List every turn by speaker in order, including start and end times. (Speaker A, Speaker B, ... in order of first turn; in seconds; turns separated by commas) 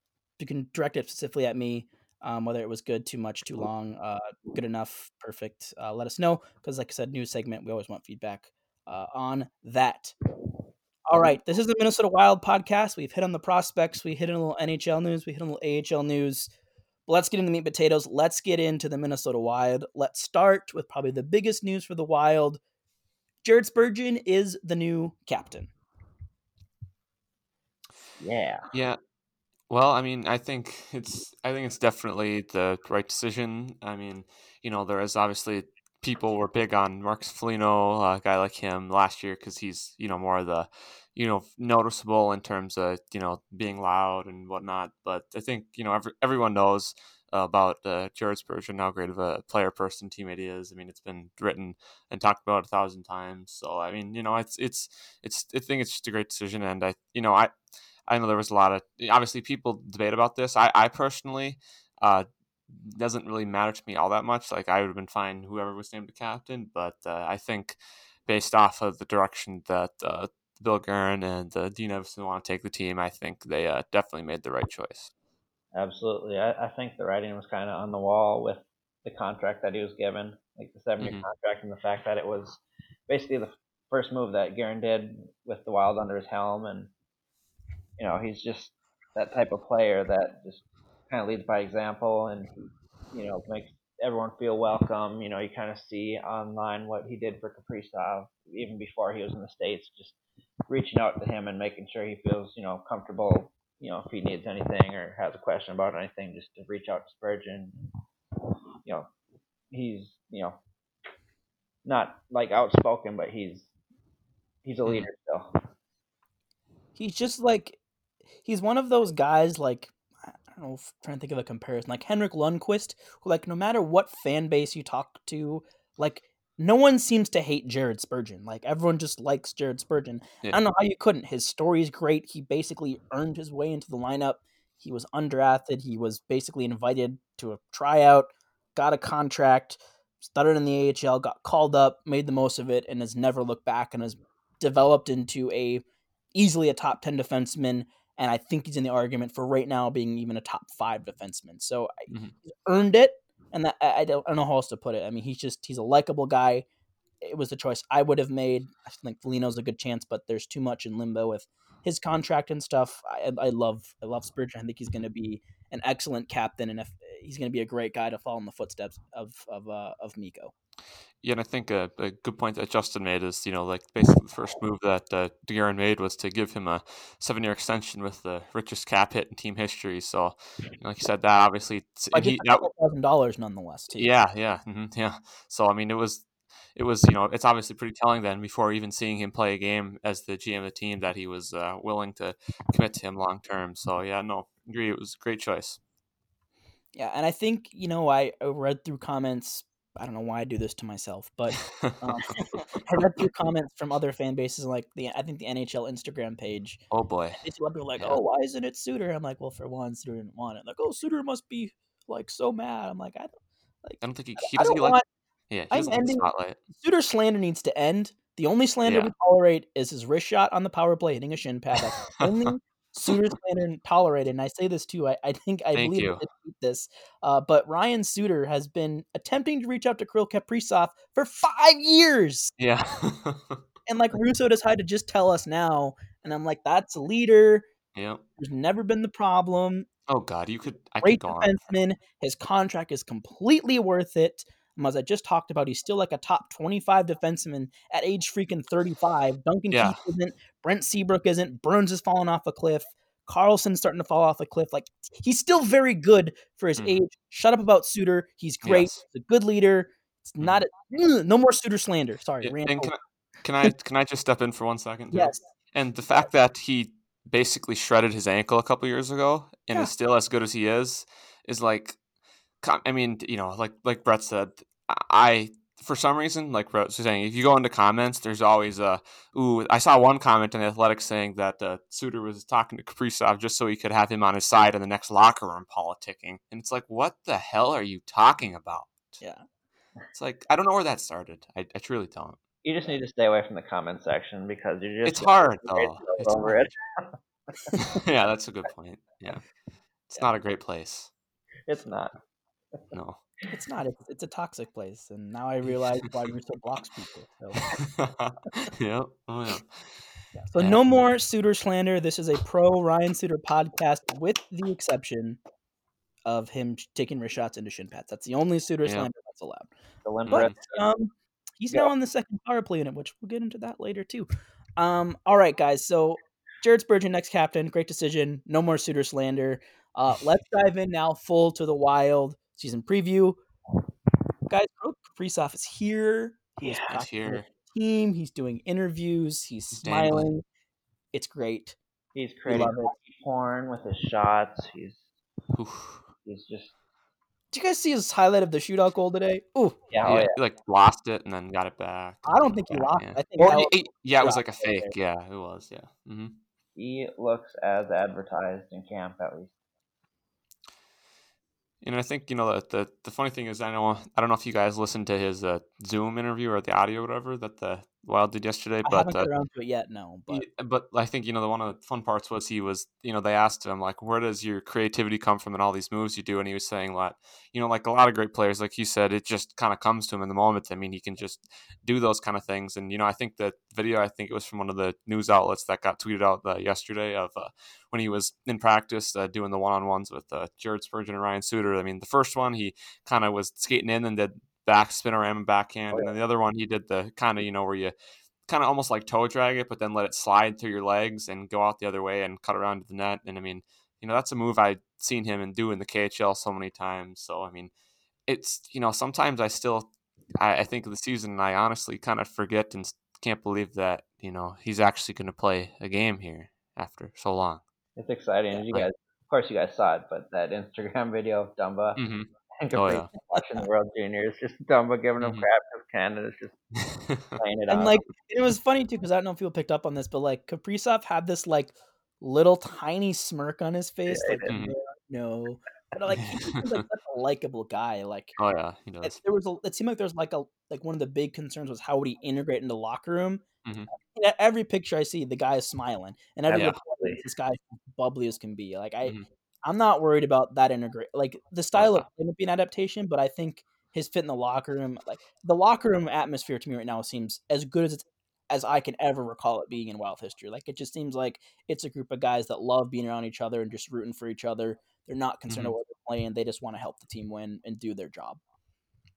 Speaker A: 0.4-10.1, Speaker A: 11.1-16.5, Speaker A: 17.1-22.6, Speaker A: 23.4-25.7, Speaker B: 28.2-28.7, Speaker C: 28.7-29.0, Speaker C: 29.7-57.5, Speaker C: 58.1-75.1, Speaker B: 75.7-86.9, Speaker C: 81.0-81.2, Speaker B: 88.0-100.1, Speaker B: 100.7-107.7, Speaker B: 108.8-109.1, Speaker B: 109.7-110.6, Speaker B: 111.8-113.7, Speaker B: 114.6-115.5, Speaker A: 117.0-117.8, Speaker A: 118.4-145.8, Speaker A: 146.3-151.9, Speaker A: 152.4-156.6, Speaker A: 157.2-170.5, Speaker C: 171.2-182.7, Speaker A: 182.1-184.1, Speaker C: 183.9-195.8, Speaker A: 196.9-206.8, Speaker C: 206.9-207.4, Speaker A: 207.3-213.3, Speaker A: 213.8-215.0, Speaker C: 214.0-214.9, Speaker C: 215.5-216.6, Speaker A: 215.7-232.5, Speaker C: 218.8-219.1, Speaker C: 225.8-226.2, Speaker C: 232.6-233.6, Speaker A: 233.9-237.7, Speaker C: 237.9-238.2, Speaker A: 238.4-239.9, Speaker C: 240.1-241.6, Speaker A: 241.0-262.9, Speaker C: 249.7-250.0, Speaker C: 258.6-259.0, Speaker C: 262.4-272.0, Speaker A: 265.1-265.4, Speaker C: 272.6-289.2, Speaker C: 290.1-292.4, Speaker B: 292.6-297.8, Speaker C: 295.0-296.7, Speaker C: 297.9-299.4, Speaker C: 300.1-301.1, Speaker B: 301.7-302.1, Speaker C: 302.9-303.2, Speaker A: 303.5-307.6, Speaker C: 307.6-309.7, Speaker A: 310.4-315.4, Speaker C: 310.6-310.8, Speaker A: 316.2-319.7, Speaker B: 320.0-320.9, Speaker A: 320.3-333.4, Speaker A: 334.5-340.4, Speaker C: 336.6-337.5, Speaker C: 339.8-340.3, Speaker A: 341.1-341.8, Speaker B: 342.1-345.0, Speaker A: 342.4-342.9, Speaker C: 345.5-346.0, Speaker B: 346.2-346.7, Speaker A: 347.5-349.8, Speaker B: 349.9-350.4, Speaker C: 350.0-356.4, Speaker A: 352.2-354.9, Speaker B: 356.8-359.5, Speaker C: 361.8-369.3, Speaker A: 368.8-370.4, Speaker C: 370.3-397.9, Speaker C: 398.5-407.7, Speaker C: 408.3-417.6, Speaker B: 418.0-422.0, Speaker C: 422.0-423.1, Speaker B: 422.6-426.6, Speaker A: 423.3-423.6, Speaker C: 425.2-425.4, Speaker C: 426.8-427.4, Speaker B: 427.4-428.0, Speaker A: 427.7-438.3, Speaker B: 434.1-434.6, Speaker C: 436.1-436.6, Speaker C: 438.4-439.1, Speaker A: 439.0-468.4, Speaker B: 446.5-447.2